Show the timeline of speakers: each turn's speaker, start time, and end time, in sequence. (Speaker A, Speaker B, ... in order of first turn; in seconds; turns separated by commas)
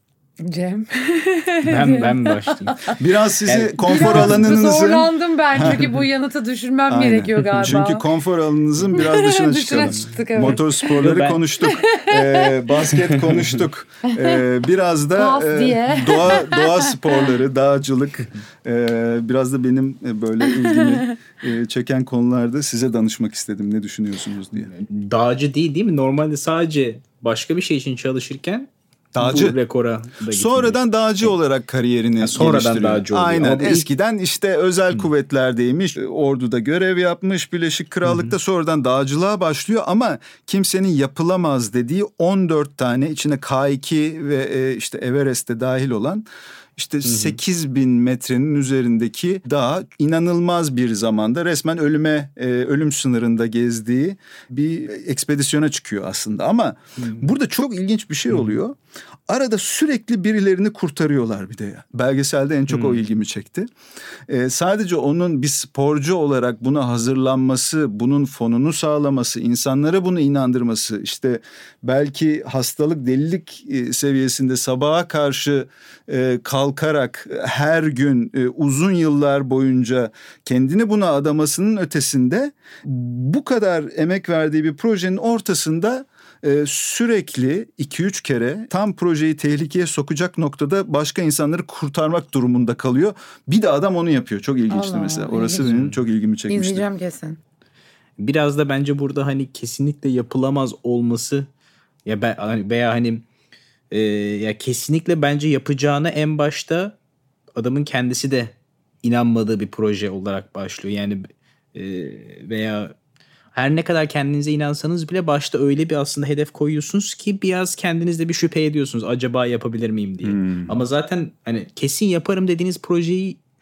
Speaker A: 0.4-3.0, Speaker B: 1.6-4.5, Speaker C: 3.0-5.9, Speaker A: 3.9-8.1, Speaker C: 6.9-24.7, Speaker A: 8.9-11.0, Speaker B: 9.9-11.4, Speaker A: 11.6-12.5, Speaker B: 13.1-13.6, Speaker A: 14.2-14.4, Speaker A: 15.2-17.3, Speaker A: 20.7-21.1, Speaker B: 24.6-31.3, Speaker C: 29.1-29.6, Speaker C: 30.3-46.2, Speaker B: 32.2-33.9, Speaker B: 38.0-38.3, Speaker C: 46.8-58.8, Speaker B: 47.0-47.4, Speaker B: 57.0-57.3, Speaker B: 58.3-58.6, Speaker C: 59.3-63.7, Speaker B: 62.7-63.0, Speaker C: 64.3-96.8, Speaker A: 94.7-95.9, Speaker A: 96.5-97.4, Speaker B: 98.2-101.5, Speaker B: 102.0-103.2, Speaker B: 103.9-107.0, Speaker B: 107.5-112.9, Speaker B: 113.5-123.4, Speaker C: 120.2-120.7